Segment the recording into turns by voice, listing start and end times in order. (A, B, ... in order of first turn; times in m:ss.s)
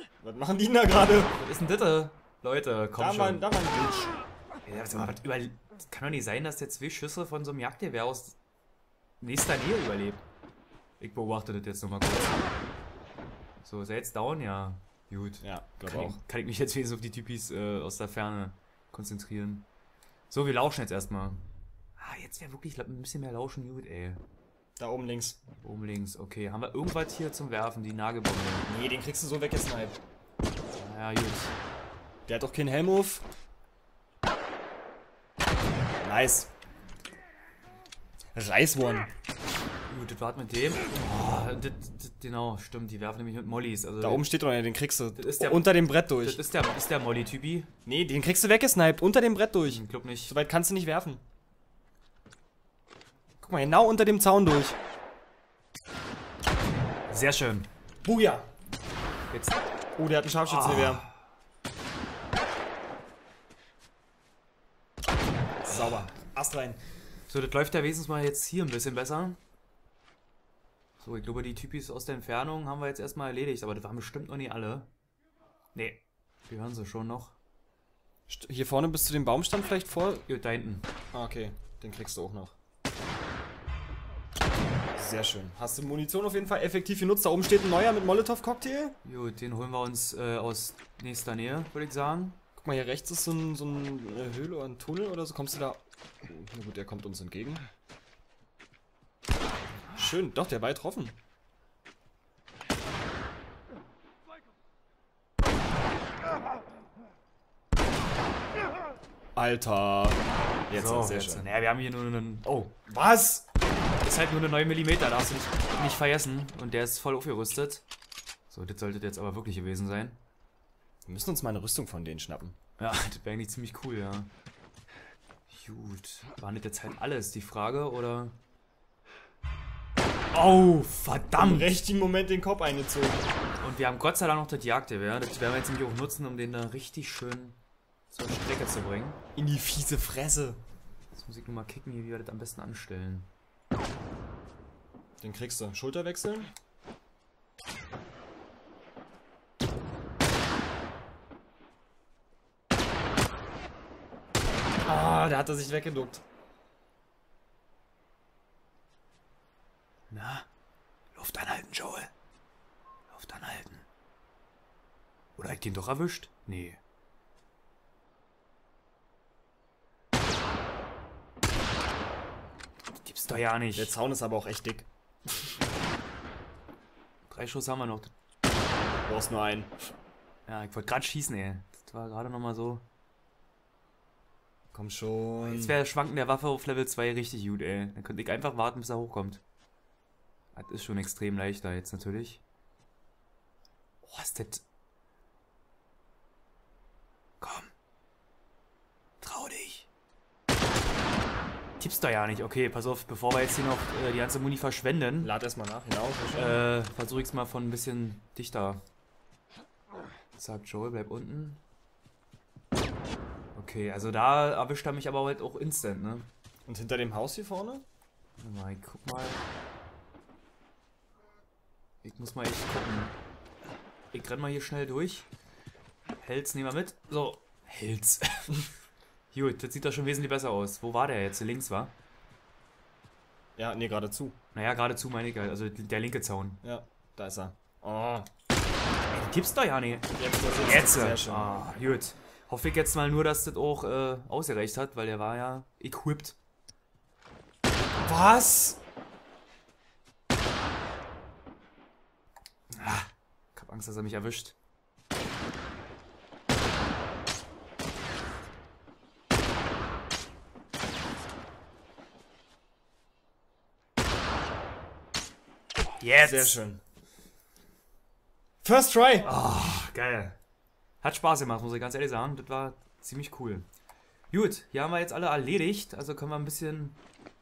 0:00.2-0:01.4 A
0:01.3-0:03.5 B
0:03.0-0:04.1 A
0:04.6-0:08.4 B
0:09.2-0:10.2 B
0:11.0-0:12.4 B
0:13.6-0:19.7 B
0:15.4-0:16.2 A
0:20.3-0:21.4 B
0:22.0-0:24.2 B
0:24.8-0:25.4 A
0:25.6-0:28.7 B
0:28.7-0:30.0 A
0:30.8-0:31.5 B
0:32.3-0:33.2 A
0:36.0-0:36.5 A
0:38.3-0:39.1 A
0:39.9-0:44.2 B
0:44.0-0:46.4 A
0:45.2-0:47.7 B
0:47.8-0:51.2 A
0:49.6-0:50.3 B
0:53.4-0:54.8 A
0:57.1-0:57.7 B
0:58.0-0:58.5 A
0:59.3-0:59.6 B
1:00.0-1:01.0 A
1:00.4-1:01.2 B
1:05.6-1:06.8 A
1:07.3-1:09.4 B
1:11.0-1:14.9 B
1:15.7-1:17.4 B
1:18.3-1:20.2 A
1:20.3-1:20.9 B
1:21.1-1:22.6 A
1:25.0-1:29.0 A
1:29.0-1:32.4 B
1:32.6-1:37.6 A
1:39.9-1:41.2 A
1:49.4-1:51.4 A
1:50.7-1:52.8 B
1:52.9-1:53.4 A
1:54.0-1:57.8 B
1:58.5-2:00.2 B
2:01.0-2:02.6 A
2:02.8-2:04.3 B
2:05.5-2:08.4 B
2:10.3-2:11.7 B
2:11.4-2:13.2 A
2:13.6-2:17.6 B
2:18.1-2:19.2 B
2:19.4-2:20.6 A
2:21.1-2:23.3 B
2:25.2-2:26.5 A
2:34.8-2:36.2 A
2:40.1-2:40.4 B
2:41.1-2:42.1 B
2:43.1-2:43.8 B
2:45.4-2:46.8 B
2:53.0-2:53.9 B
2:53.8-2:54.9 A
2:57.3-2:58.1 B
2:59.0-2:59.7 A
3:00.4-3:02.8 B
3:04.7-3:05.8 A
3:05.4-3:09.4 B
3:10.5-3:12.4 B
3:14.0-3:14.6 B
3:17.4-3:17.7 B
3:19.2-3:19.9 B
3:21.8-3:25.3 B
3:25.2-3:26.6 A
3:26.3-3:28.8 B
3:30.4-3:31.6 B
3:33.5-3:36.3 B
3:36.6-3:37.8 A
3:38.4-3:39.4 B
3:42.0-3:43.2 B
3:44.1-3:45.3 B
3:46.2-3:48.7 B
3:49.3-3:51.9 B
3:53.6-3:54.4 A
3:54.5-3:56.6 B
3:56.6-3:58.3 A
3:59.1-4:06.4 B
4:00.1-4:01.5 A
4:08.0-4:08.8 A
4:12.7-4:14.5 B
4:26.0-4:26.6 B
4:26.2-4:26.8 A
4:28.6-4:29.3 A
4:29.2-4:30.4 B
4:31.0-4:33.7 B
4:34.3-4:37.0 B